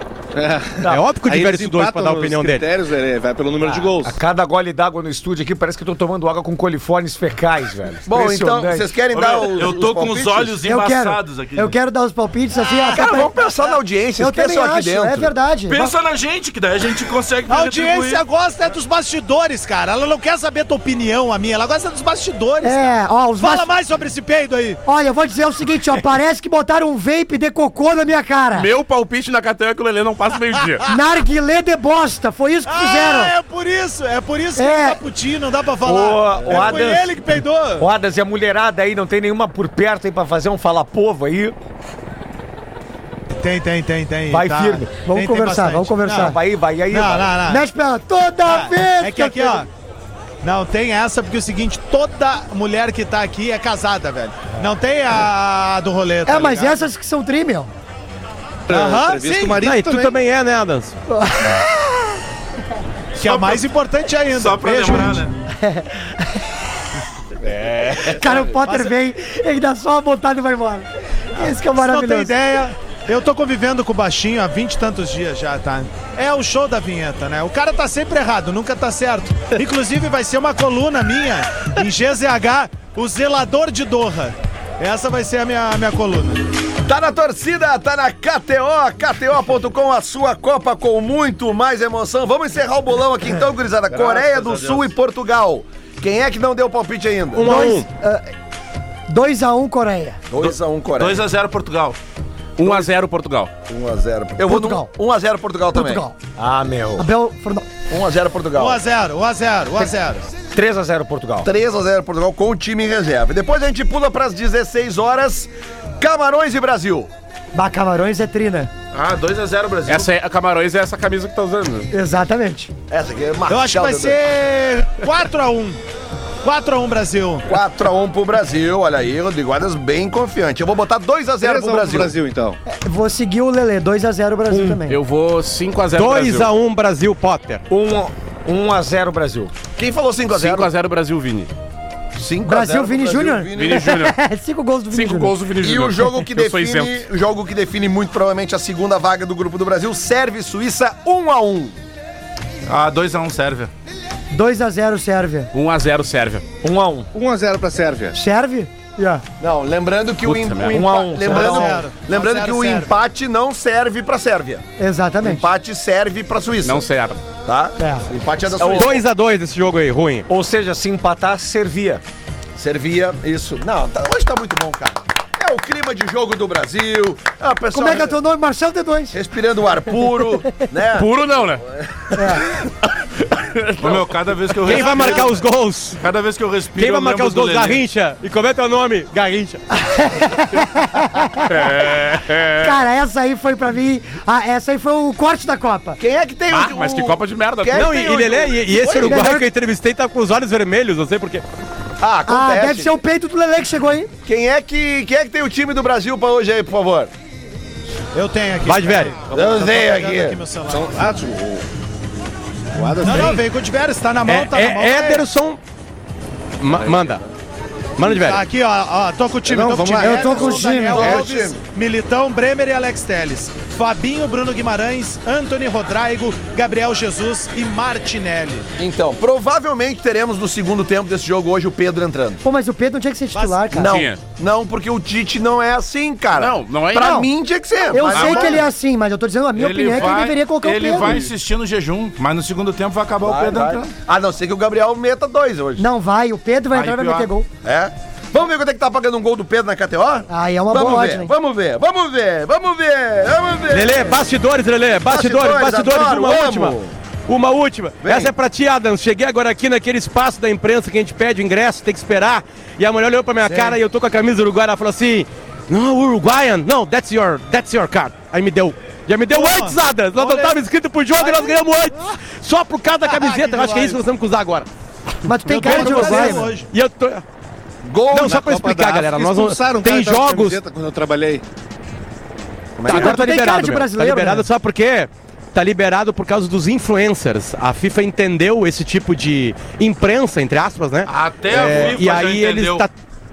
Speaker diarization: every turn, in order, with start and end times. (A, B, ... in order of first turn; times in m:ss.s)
0:00.3-0:04.2 A
0:00.8-0:02.6 B
0:03.6-0:09.0 C
0:08.0-0:10.6 D
0:09.1-0:11.8 E
0:10.6-0:13.3 F
0:12.9-0:15.3 D
0:14.2-0:15.9 F
0:15.7-0:18.2 E
0:17.5-0:24.8 G
0:22.6-0:23.7 F
0:24.8-0:28.7 F
0:28.5-0:30.8 H
0:30.8-0:33.3 F
0:32.7-0:37.9 G
0:34.6-0:35.0 F
0:35.8-0:37.2 C
0:37.8-0:41.5 C
0:43.4-0:46.4 G
0:44.3-0:45.0 C
0:45.0-0:46.4 F
0:46.2-0:47.4 C
0:46.9-0:47.6 G
0:47.4-0:49.6 F
0:48.4-0:49.7 G
0:50.4-0:56.9 G
0:56.3-0:57.7 F
0:58.7-1:00.1 A
0:58.7-0:59.6 G
0:59.6-1:01.0 B
1:01.1-1:02.1 F
1:03.2-1:05.3 G
1:03.2-1:03.6 E
1:04.3-1:05.3 E
1:05.6-1:06.4 F
1:07.7-1:08.0 A
1:08.0-1:12.3 F
1:08.6-1:09.0 G
1:11.4-1:26.4 G
1:26.8-1:37.6 D
1:33.9-1:34.9 E
1:37.3-1:37.9 B
1:37.4-1:38.2 F
1:39.1-1:40.2 F
1:40.3-1:41.2 D
1:40.4-1:42.0 E
1:42.6-1:43.5 H
1:42.6-1:42.9 D
1:43.7-1:46.0 D
1:44.4-1:44.9 F
1:45.7-1:46.1 F
1:46.4-1:47.1 C
1:47.0-1:47.7 F
1:47.9-1:48.8 D
1:48.6-1:50.3 G
1:50.5-1:51.5 C
1:51.4-1:57.1 D
1:57.5-1:58.7 F
1:58.9-2:00.1 E
1:59.8-2:01.9 H
2:01.9-2:02.7 F
2:02.9-2:04.2 D
2:03.5-2:05.8 G
2:06.4-2:07.5 G
2:07.5-2:12.1 D
2:11.4-2:12.6 A
2:12.6-2:15.0 F
2:14.5-2:14.8 C
2:14.9-2:16.5 H
2:15.9-2:17.6 B
2:17.7-2:19.5 C
2:19.8-2:20.7 D
2:20.3-2:21.5 H
2:22.1-2:23.9 D
2:22.4-2:25.4 F
2:23.5-2:24.2 H
2:24.9-2:27.0 H
2:25.6-2:31.8 D
2:32.7-2:33.7 E
2:34.3-2:35.5 F
2:35.5-2:36.4 H
2:36.6-2:37.1 C
2:37.1-2:38.2 A
2:38.1-2:39.2 F
2:39.4-2:44.6 D
2:40.2-2:41.1 H
2:40.7-2:41.6 C
2:41.2-2:42.9 G
2:41.3-2:41.8 F
2:44.8-2:45.4 F
2:45.2-2:46.8 D
2:46.6-2:47.2 H
2:47.4-2:49.0 D
2:47.8-2:48.0 F
2:48.6-2:50.3 B
2:50.3-2:52.0 C
2:52.6-2:58.2 D
2:57.7-2:59.2 F
2:59.1-3:01.1 D
3:00.9-3:01.6 H
3:01.7-3:02.3 D
3:02.2-3:02.4 F
3:03.7-3:04.0 H
3:03.8-3:05.4 E
3:04.6-3:06.0 B
3:04.7-3:05.2 F
3:06.0-3:07.8 E
3:06.8-3:09.6 B
3:09.8-3:11.5 F
3:11.5-3:12.8 H
3:12.6-3:16.0 F
3:16.0-3:19.5 D
3:16.5-3:17.9 H
3:17.7-3:21.4 B
3:18.9-3:19.4 F
3:22.0-3:23.0 D
3:22.3-3:24.1 F
3:24.2-3:27.1 D
3:28.1-3:31.1 G
3:28.6-3:29.1 B
3:29.3-3:30.4 D
3:30.6-3:31.6 A
3:32.7-3:33.4 A
3:33.0-3:35.2 G
3:34.2-3:35.6 B
3:36.6-3:37.2 B
3:38.0-3:38.4 B
3:38.1-3:48.7 G
3:39.4-3:40.5 A
3:40.0-3:41.2 F
3:40.1-3:41.6 D
3:48.8-3:52.4 D
3:52.4-3:54.0 F
3:53.3-3:53.7 G
3:53.7-3:58.6 D
3:53.8-3:54.2 H
3:56.3-3:57.2 H
3:56.9-3:57.3 F
3:57.9-4:01.2 F
3:58.1-3:58.6 E
3:58.2-3:58.6 G
3:59.5-4:03.9 E
4:03.2-4:05.9 D
4:05.8-4:07.5 F
4:06.7-4:07.3 E
4:07.6-4:14.2 D
4:10.3-4:11.3 F
4:13.7-4:16.8 B
4:15.0-4:16.9 D
4:17.3-4:34.7 B
4:18.0-4:18.3 D
4:29.3-4:30.6 G
4:31.2-4:31.6 G
4:33.0-4:34.0 G
4:35.2-4:36.5 F
4:35.5-4:36.7 G
4:35.5-4:37.2 B
4:37.8-4:38.4 D
4:38.1-4:40.6 B
4:38.1-4:41.4 A
4:42.8-4:43.3 D
4:42.8-4:44.4 F
4:42.9-4:52.9 B
4:51.1-4:52.9 E